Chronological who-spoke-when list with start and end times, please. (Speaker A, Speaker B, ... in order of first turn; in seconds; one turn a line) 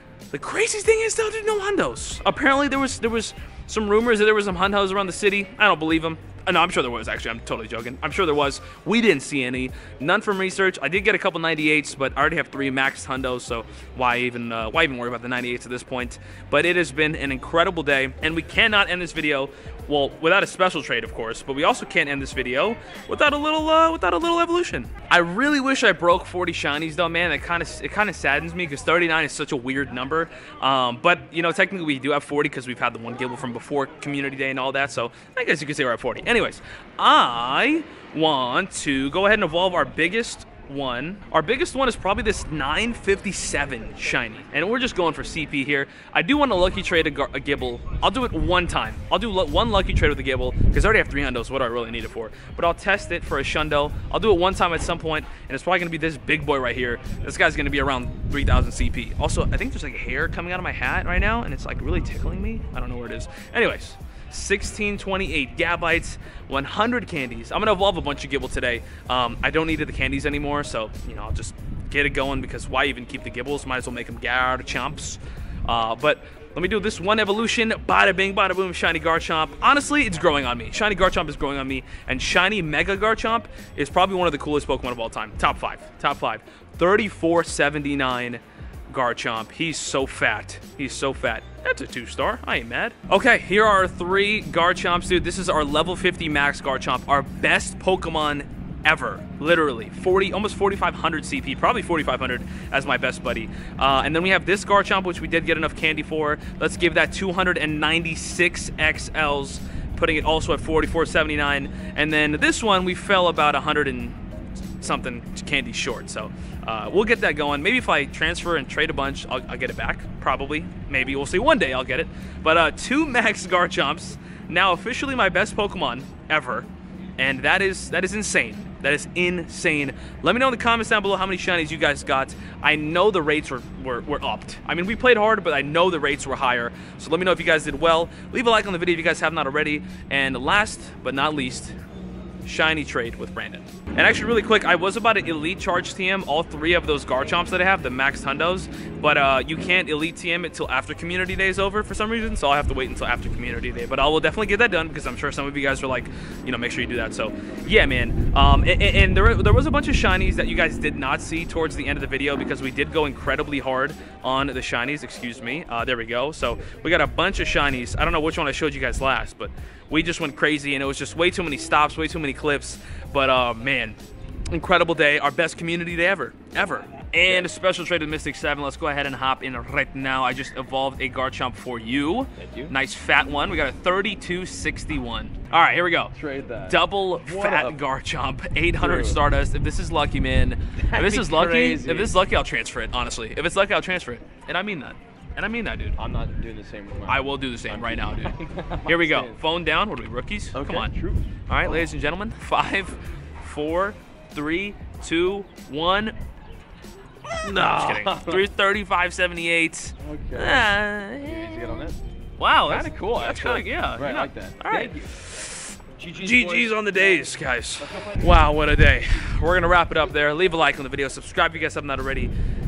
Speaker A: 0.3-114.2
Speaker A: 114.8-141.8
Speaker A: 142.4-174.0
Speaker A: 174.5-186.1
Speaker B: 182.4-182.7
Speaker B: 186.2-186.7
Speaker A: 186.7-196.0
Speaker B: 187.3-187.7
Speaker B: 188.8-189.2
Speaker B: 190.9-192.2
Speaker B: 196.0-199.3
Speaker A: 197.1-200.9
Speaker B: 200.5-201.2
Speaker A: 201.5-206.2
Speaker A: 207.4-211.5
Speaker B: 207.4-208.4
Speaker B: 210.0-210.7
Speaker B: 211.2-212.0
Speaker A: 212.4-222.3
Speaker B: 212.7-215.1
Speaker B: 216.0-216.8